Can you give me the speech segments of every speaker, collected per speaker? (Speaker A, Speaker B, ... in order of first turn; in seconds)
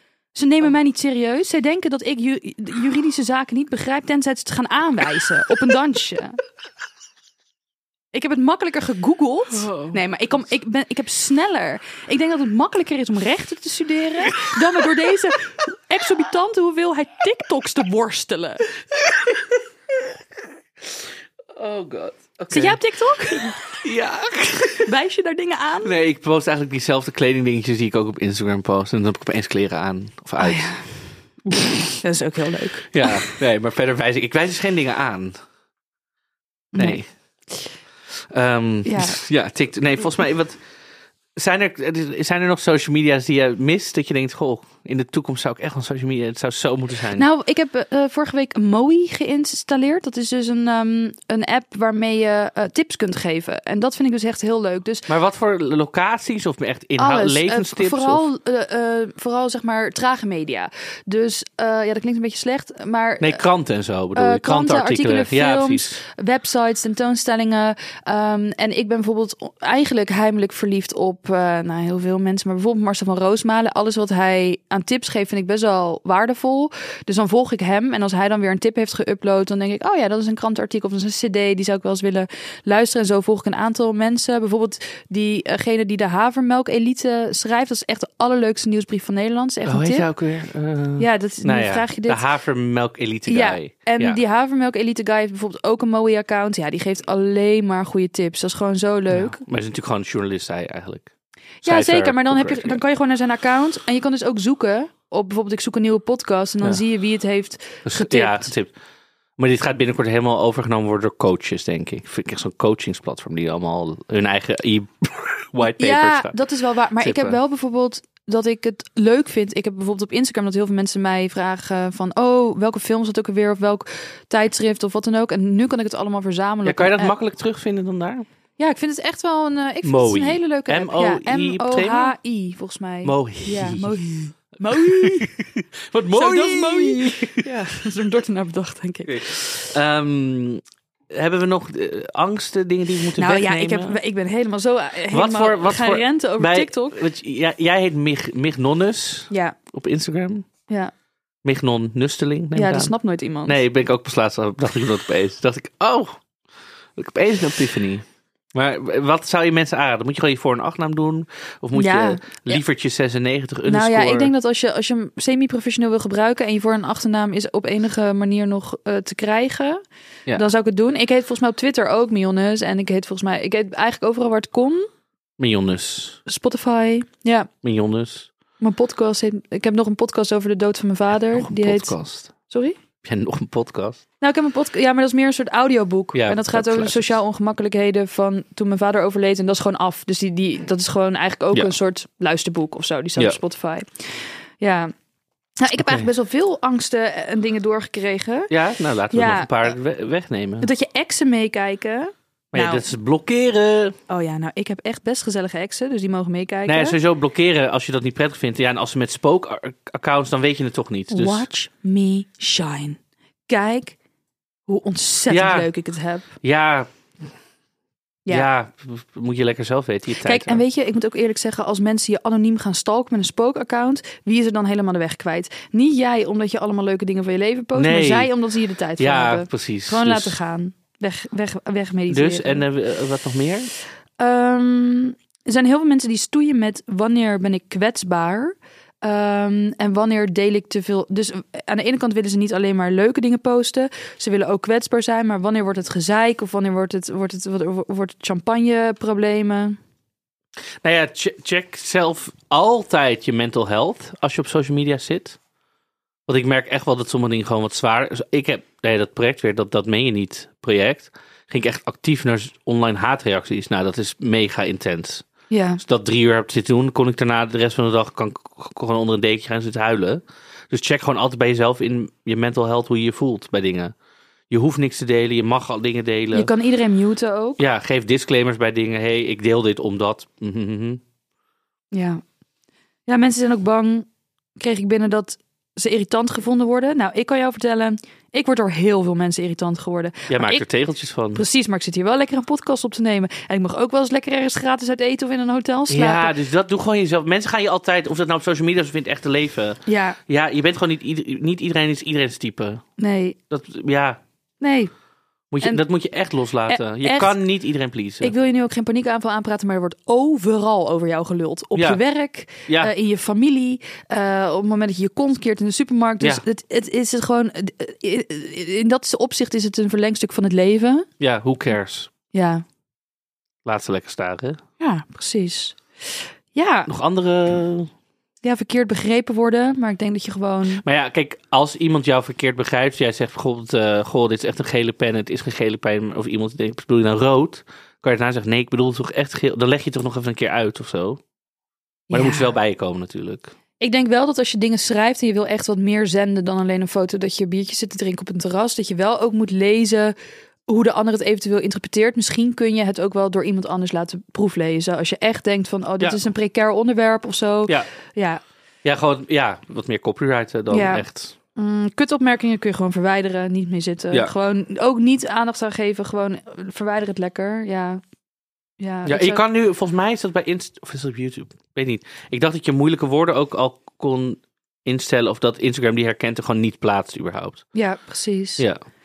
Speaker A: 0.3-6.4, 8.1-18.7, 22.5-23.6, 24.9-25.9, 30.4-33.4, 36.7-37.0, 38.9-39.2, 47.1-55.1, 57.0-63.4, 64.2-90.1, 91.0-92.2, 93.3-99.4, 101.6-108.5, 115.8-127.2, 128.6-135.4, 136.1-139.7, 143.2-147.0, 149.3-149.6, 152.6-153.6, 161.7-162.6, 163.7-169.8, 170.3-174.9, 176.3-177.5, 178.6-182.8, 184.2-194.9, 195.6-198.5, 199.1-199.8, 200.6-202.9, 204.1-207.0, 211.1-214.0, 214.7-216.3, 220.2-232.7, 234.2-249.8, 265.5-265.8, 276.3-277.6, 281.9-282.2, 283.1-290.7, 291.3-296.4, 299.9-300.2, 303.0-303.4, 304.6-304.9, 306.7-307.4, 308.2-321.1, 322.3-322.6, 324.8-325.8, 326.5-326.9, 328.4-330.8, 342.1-342.5, 343.8-350.1, 350.7-358.4, 360.7-368.0, 368.8-369.4, 377.7-378.7
Speaker B: 9.7-10.0, 19.1-19.5, 21.5-22.8, 23.8-24.9, 25.8-30.7, 32.9-35.4, 36.8-37.1, 38.3-40.6, 41.4-47.2, 55.1-58.2, 63.2-66.0, 89.7-94.2, 99.1-101.1, 101.6-102.8, 107.9-108.7, 109.4-116.4, 117.0-117.4, 126.7-128.3, 129.8-132.1, 133.0-134.0, 134.7-137.4, 139.1-144.0, 145.1-150.5, 151.4-152.9, 153.4-156.2, 157.0-164.3, 175.4-176.2, 177.6-178.3, 181.3-182.3, 183.0-184.0, 186.1-187.2, 195.7-196.1, 198.5-200.7, 202.5-204.0, 206.7-211.5, 215.3-215.7, 216.4-216.9, 218.3-220.6, 227.7-228.3, 229.0-230.4, 232.1-233.7, 250.8-255.4, 256.3-265.3, 265.8-273.9, 274.5-276.5, 277.6-281.0, 290.3-291.4, 295.9-302.8, 303.5-304.2, 305.5-308.3, 311.8-312.0, 312.7-312.9, 321.2-322.1, 323.6-324.6, 326.9-327.9, 330.8-341.2, 342.1-343.5, 358.8-361.4, 369.1-377.6